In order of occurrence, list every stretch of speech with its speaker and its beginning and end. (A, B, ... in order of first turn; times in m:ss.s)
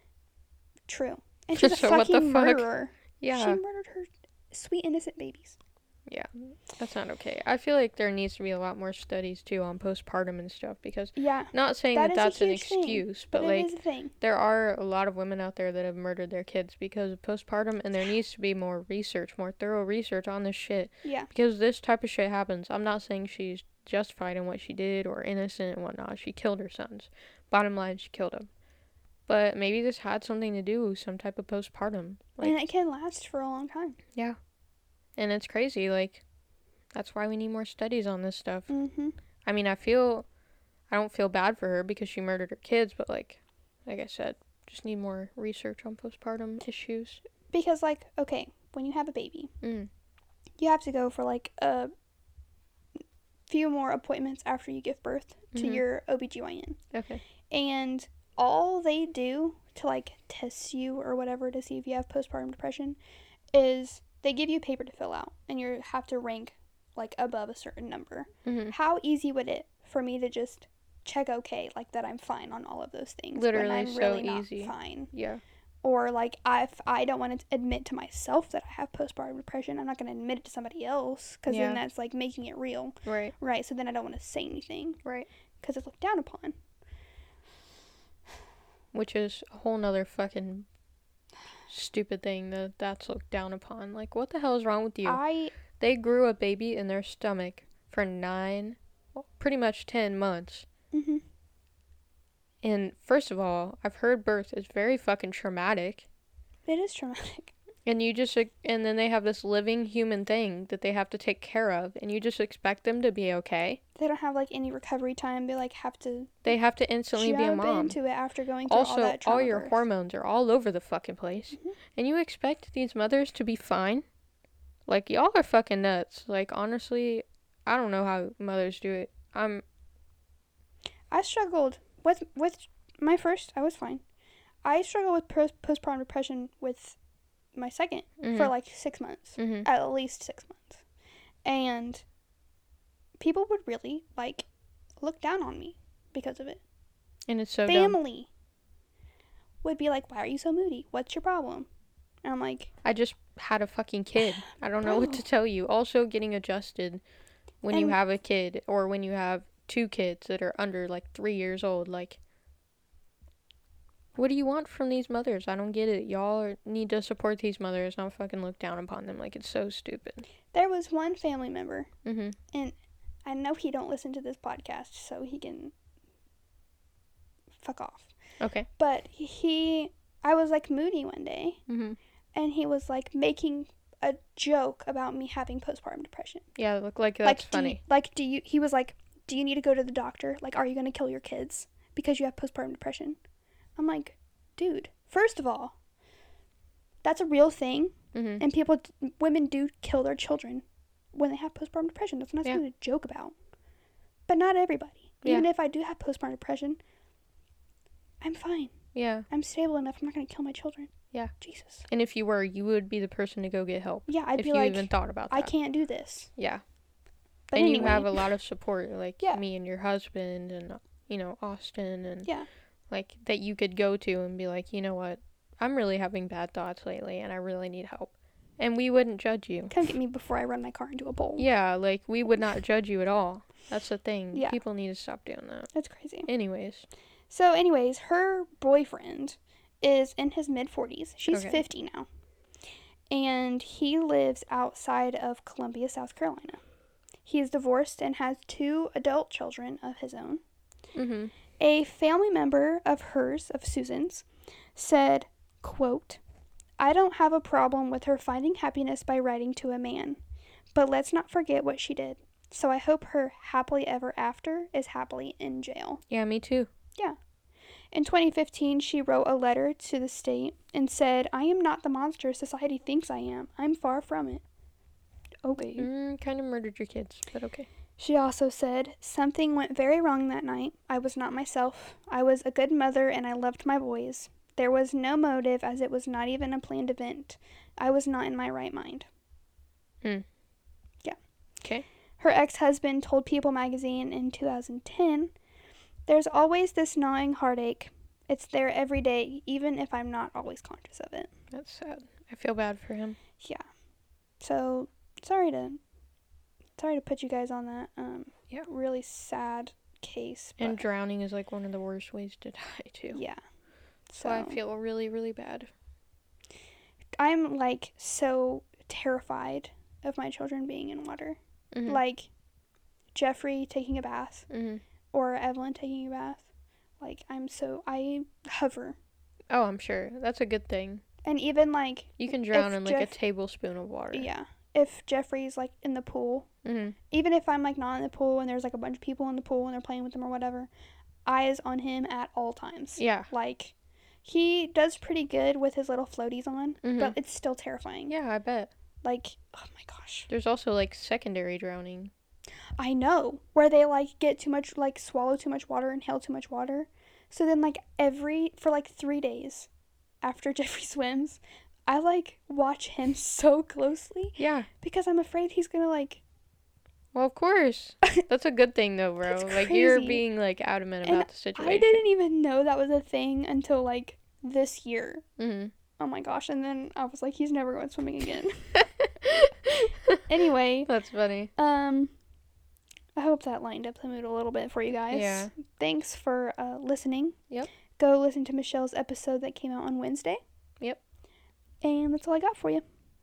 0:00.9-0:05.6 A
0:01.6-0:02.7 B
0:03.2-0:03.6 B
0:06.1-0:28.5 B
0:11.2-0:14.2 A
0:21.0-0:21.3 A
0:29.3-0:32.6 B
0:32.4-0:34.0 A
0:35.2-0:36.2 B
0:36.9-0:38.7 B
0:38.7-0:39.2 A
0:39.4-0:40.3 B
0:40.9-0:47.2 B
0:47.5-0:49.5 A
0:49.6-0:49.9 B
0:50.6-0:51.9 A
0:53.5-0:56.8 A
0:55.5-0:55.8 B
0:56.9-0:57.2 B
0:57.5-1:03.0 A
1:03.5-1:15.1 A
1:08.4-1:08.8 B
1:13.4-1:15.4 B
1:15.8-1:25.0 A
1:21.5-1:21.8 B
1:23.0-1:23.3 B
1:25.6-1:26.5 A
1:28.9-1:30.7 B
1:31.7-1:35.2 B
1:35.0-1:35.5 A
1:35.8-1:40.7 B
1:40.9-1:41.2 A
1:42.6-1:46.1 B
1:46.7-1:47.5 A
1:47.9-1:53.8 B
1:54.0-1:56.6 A
1:56.4-1:58.0 B
1:57.1-1:59.8 A
1:58.7-2:04.0 B
2:04.9-2:09.6 B
2:11.1-2:14.0 A
2:14.6-2:17.0 A
2:17.6-2:20.8 A
2:18.2-2:18.5 B
2:19.4-2:19.7 B
2:21.4-2:22.0 A
2:23.2-2:24.5 A
2:25.0-2:26.6 A
2:27.3-2:28.0 B
2:27.7-2:28.3 A
2:29.6-2:31.7 A
2:32.2-2:32.7 A
2:32.8-2:37.0 B
2:34.8-2:35.2 A
2:37.6-2:42.2 B
2:37.7-2:38.0 A
2:44.2-2:50.3 B
2:50.5-2:51.9 A
2:52.0-2:52.4 B
2:52.5-2:55.7 A
2:57.6-2:58.1 A
2:58.4-2:58.7 B
2:58.8-3:01.6 A
3:01.7-3:02.0 B
3:02.3-3:06.5 A
3:06.6-3:07.8 B
3:07.2-3:13.2 A
3:13.8-3:15.8 A
3:17.0-3:23.3 A
3:18.1-3:18.4 B
3:24.3-3:26.8 A
3:28.2-3:28.8 A
3:29.0-3:29.3 B
3:29.3-3:31.9 A
3:31.9-3:35.5 B
3:34.1-3:36.3 A
3:36.4-3:36.6 B
3:37.5-3:38.3 A
3:37.5-3:42.3 B
3:42.9-3:49.7 B
3:49.7-3:51.5 A
3:51.4-3:55.7 B
3:54.3-3:54.6 A
3:55.7-3:56.3 A
3:56.3-3:56.9 B
3:57.3-4:02.1 A
4:01.3-4:01.6 B
4:03.1-4:06.6 A
4:07.2-4:10.4 A
4:11.0-4:11.3 B
4:11.6-4:16.2 A
4:16.8-4:20.2 A
4:20.7-4:26.0 A
4:26.1-4:26.7 B
4:27.9-4:34.4 A
4:35.4-4:35.9 A
4:35.8-4:37.7 B
4:38.0-4:49.1 A
4:52.2-4:55.3 A
4:56.1-5:01.3 A
5:01.5-5:03.2 B
5:03.4-5:03.6 A
5:04.4-5:05.8 A
5:06.8-5:10.8 A
5:10.6-5:13.2 B
5:13.1-5:13.4 A
5:14.1-5:14.6 A
5:14.2-5:15.7 B
5:17.2-5:22.3 A
5:21.7-5:22.0 B
5:23.2-5:24.5 A
5:24.5-5:24.8 B
5:25.1-5:26.4 A
5:27.0-5:29.0 A
5:29.5-5:31.0 B
5:31.2-5:33.1 A
5:32.2-5:34.3 B
5:34.1-5:36.5 A
5:36.6-5:37.0 B
5:37.1-5:40.7 A
5:41.2-5:48.1 A
5:43.0-5:43.3 B
5:46.8-5:47.2 B
5:48.1-5:48.7 B
5:49.0-5:50.3 A
5:50.3-5:52.1 B
5:52.8-5:59.7 A
6:00.2-6:06.2 A
6:04.4-6:04.7 B
6:07.1-6:12.0 B
6:09.3-6:10.2 A
6:11.0-6:15.2 A
6:15.4-6:15.7 B
6:16.0-6:18.8 A
6:19.0-6:20.2 B
6:20.3-6:20.9 A
6:20.9-6:21.5 B
6:21.6-6:22.1 A
6:23.2-6:27.4 A
6:25.1-6:25.5 B
6:28.0-6:30.4 A
6:31.8-6:32.8 A